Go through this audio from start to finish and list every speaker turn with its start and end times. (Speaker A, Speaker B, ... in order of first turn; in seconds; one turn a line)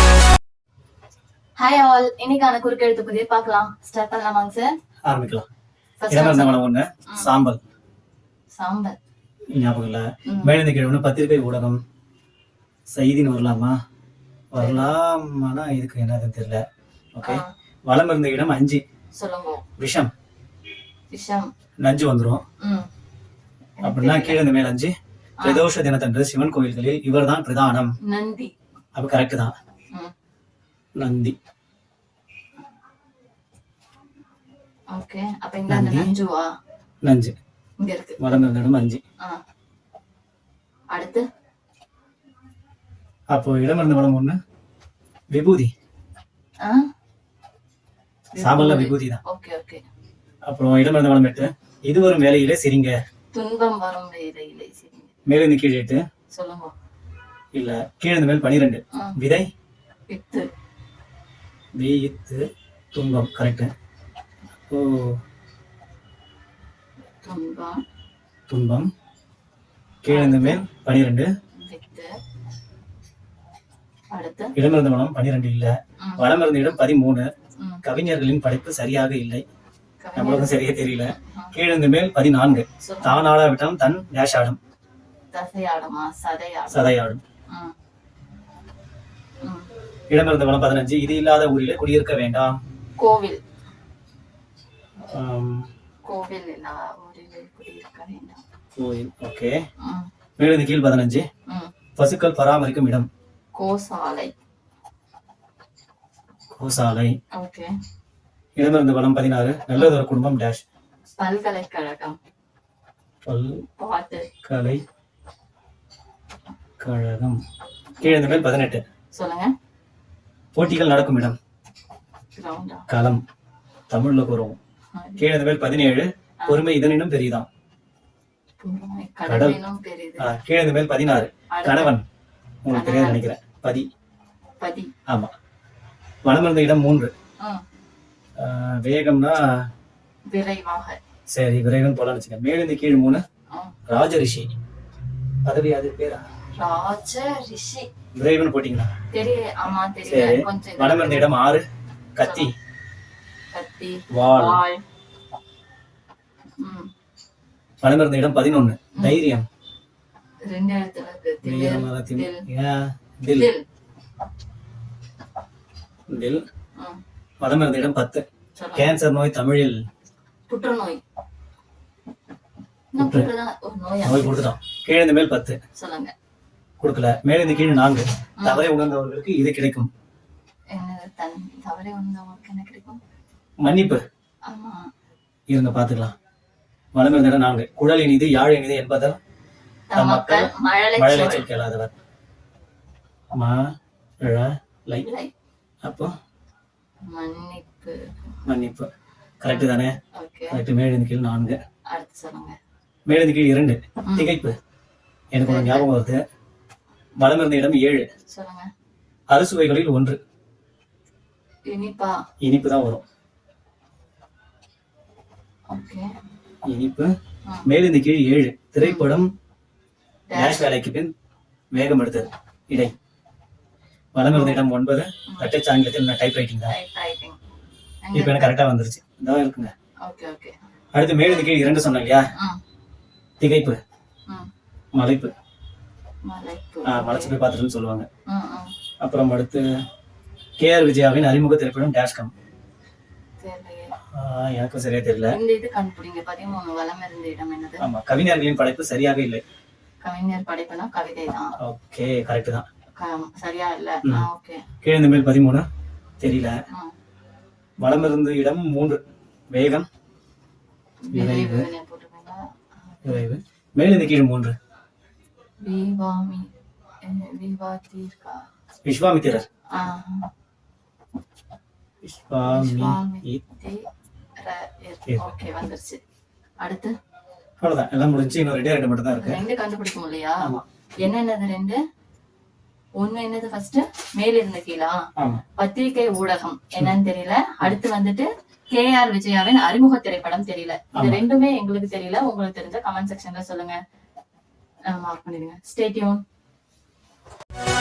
Speaker A: 1.6-4.7
Speaker B: 5.0-5.5
Speaker A: 6.0-7.3
Speaker B: 6.1-7.6
Speaker A: 8.6-9.0
Speaker B: 9.6-11.8
Speaker A: 10.3-10.6
Speaker B: 12.9-13.8
Speaker B: 14.5-16.6
Speaker A: 14.6-14.9
Speaker B: 17.1-18.8
Speaker A: 17.2-17.5
Speaker A: 19.2-19.6
Speaker B: 19.8-20.1
Speaker A: 21.1-21.5
Speaker B: 21.8-22.4
Speaker A: 22.6-22.9
Speaker A: 23.8-24.4
Speaker B: 23.8-27.9
Speaker A: 28.0-28.5
Speaker B: 28.9-29.5
Speaker B: 31.0-31.4
Speaker A: 34.9-36.5
Speaker B: 35.7-36.1
Speaker B: 37.0-37.3
Speaker A: 37.8-38.2
Speaker B: 38.2-39.0
Speaker A: 40.9-41.2
Speaker B: 43.3-44.4
Speaker B: 45.3-45.7
Speaker A: 46.6-46.9
Speaker A: 48.3-49.8
Speaker B: 48.4-49.2
Speaker B: 50.5-53.0
Speaker A: 53.3-55.1
Speaker B: 55.3-56.0
Speaker A: 56.3-56.7
Speaker B: 57.5-59.5
Speaker A: 60.1-60.5
Speaker B: 61.8-63.7
Speaker B: 64.7-65.2
Speaker A: 67.2-67.8
Speaker B: 68.5-68.9
Speaker B: 70.0-71.3
Speaker A: 70.1-70.7
Speaker A: 71.6-72.1
Speaker A: 74.1-74.5
Speaker B: 74.5-77.3
Speaker A: 76.0-76.3
Speaker B: 77.8-79.4
Speaker A: 80.0-80.6
Speaker B: 80.2-84.6
Speaker A: 81.3-81.5
Speaker A: 82.8-83.3
Speaker A: 85.3-87.0
Speaker B: 86.7-87.2
Speaker A: 87.5-87.8
Speaker A: 89.4-89.7
Speaker B: 90.1-92.5
Speaker A: 93.0-93.4
Speaker B: 95.1-95.7
Speaker A: 96.0-98.4
Speaker B: 98.8-99.5
Speaker A: 99.8-100.1
Speaker B: 100.4-101.3
Speaker A: 101.5-101.7
Speaker B: 102.0-103.1
Speaker A: 103.5-104.3
Speaker B: 106.6-107.2
Speaker A: 107.3-107.7
Speaker B: 108.6-110.6
Speaker A: 111.2-112.2
Speaker B: 113.3-113.6
Speaker A: 113.8-114.3
Speaker B: 114.4-114.8
Speaker B: 116.8-117.4
Speaker A: 118.0-118.5
Speaker B: 118.0-118.8
Speaker A: 119.2-119.5
Speaker B: 120.5-121.4
Speaker A: 122.3-122.9
Speaker B: 122.9-123.2
Speaker B: 123.9-124.6
Speaker A: 124.9-125.3
Speaker B: 125.2-127.5
Speaker A: 128.6-130.3
Speaker B: 129.3-129.6
Speaker B: 130.2-132.0
Speaker A: 131.5-131.9
Speaker B: 132.7-133.9
Speaker A: 132.7-133.2
Speaker A: 134.6-134.9
Speaker B: 136.2-137.1
Speaker B: 138.4-139.5
Speaker A: 140.3-141.0
Speaker B: 141.3-143.2
Speaker B: 143.9-144.5
Speaker B: 145.4-146.2
Speaker A: 146.6-147.9
Speaker B: 148.2-148.9
Speaker A: 149.1-151.3
Speaker B: 150.1-151.6
Speaker B: 152.2-152.5
Speaker A: 152.2-152.5
Speaker A: 153.5-154.8
Speaker B: 154.1-154.6
Speaker A: 156.6-156.9
Speaker B: 157.8-159.5
Speaker A: 159.0-159.2
Speaker A: 160.5-162.4
Speaker B: 161.4-163.5
Speaker A: 163.3-163.6
Speaker B: 166.1-166.4
Speaker B: 167.4-168.2
Speaker A: 168.6-168.9
Speaker B: 168.8-169.8
Speaker A: 170.5-171.0
Speaker A: 172.9-174.5
Speaker B: 173.0-173.3
Speaker B: 174.0-175.6
Speaker A: 175.8-176.1
Speaker B: 176.8-179.9
Speaker A: 178.4-178.7
Speaker A: 180.7-183.0
Speaker B: 183.6-184.0
Speaker A: 184.5-184.9
Speaker B: 185.5-186.2
Speaker B: 186.9-189.2
Speaker A: 189.9-191.5
Speaker B: 189.9-191.9
Speaker B: 193.3-193.6
Speaker B: 194.2-195.1
Speaker A: 195.0-195.3
Speaker B: 195.8-196.1
Speaker A: 197.1-198.0
Speaker B: 198.5-198.9
Speaker B: 199.4-200.0
Speaker A: 199.5-200.6
Speaker B: 200.5-201.6
Speaker A: 201.9-202.6
Speaker B: 203.1-204.6
Speaker A: 204.0-204.3
Speaker B: 205.3-206.2
Speaker A: 205.4-205.9
Speaker B: 207.2-208.1
Speaker A: 208.3-208.7
Speaker B: 209.3-210.2
Speaker A: 211.7-212.1
Speaker B: 212.4-213.0
Speaker A: 215.7-216.1
Speaker B: 216.7-217.1
Speaker B: 217.7-219.3
Speaker A: 218.8-219.2
Speaker A: 220.3-220.7
Speaker B: 220.3-221.1
Speaker B: 221.7-222.9
Speaker B: 224.2-226.7
Speaker A: 224.3-224.6
Speaker A: 225.3-225.5
Speaker A: 226.7-227.4
Speaker A: 228.0-228.6
Speaker B: 228.1-229.7
Speaker A: 230.0-230.6
Speaker B: 230.9-232.3
Speaker B: 233.4-233.8
Speaker B: 234.9-235.3
Speaker A: 236.3-237.4
Speaker B: 236.8-238.1
Speaker A: 238.3-238.7
Speaker B: 239.0-239.7
Speaker B: 240.6-242.3
Speaker A: 243.4-244.0
Speaker B: 244.1-245.4
Speaker A: 245.3-247.9
Speaker B: 247.8-249.4
Speaker A: 250.0-251.6
Speaker B: 251.6-252.7
Speaker A: 253.0-254.7
Speaker B: 254.8-255.7
Speaker B: 256.2-256.6
Speaker B: 257.8-259.0
Speaker B: 259.5-259.9
Speaker A: 261.1-263.3
Speaker B: 261.1-261.7
Speaker B: 263.1-264.6
Speaker A: 265.6-266.5
Speaker A: 267.0-268.4
Speaker B: 268.9-269.4
Speaker A: 269.7-270.3
Speaker B: 272.0-273.4
Speaker A: 272.5-273.8
Speaker A: 274.4-276.0
Speaker A: 276.6-276.9
Speaker B: 277.6-279.4
Speaker A: 279.2-280.5
Speaker A: 281.0-281.8
Speaker A: 283.0-285.0
Speaker B: 285.2-285.4
Speaker A: 285.6-293.8
Speaker B: 290.9-291.2
Speaker A: 294.9-296.2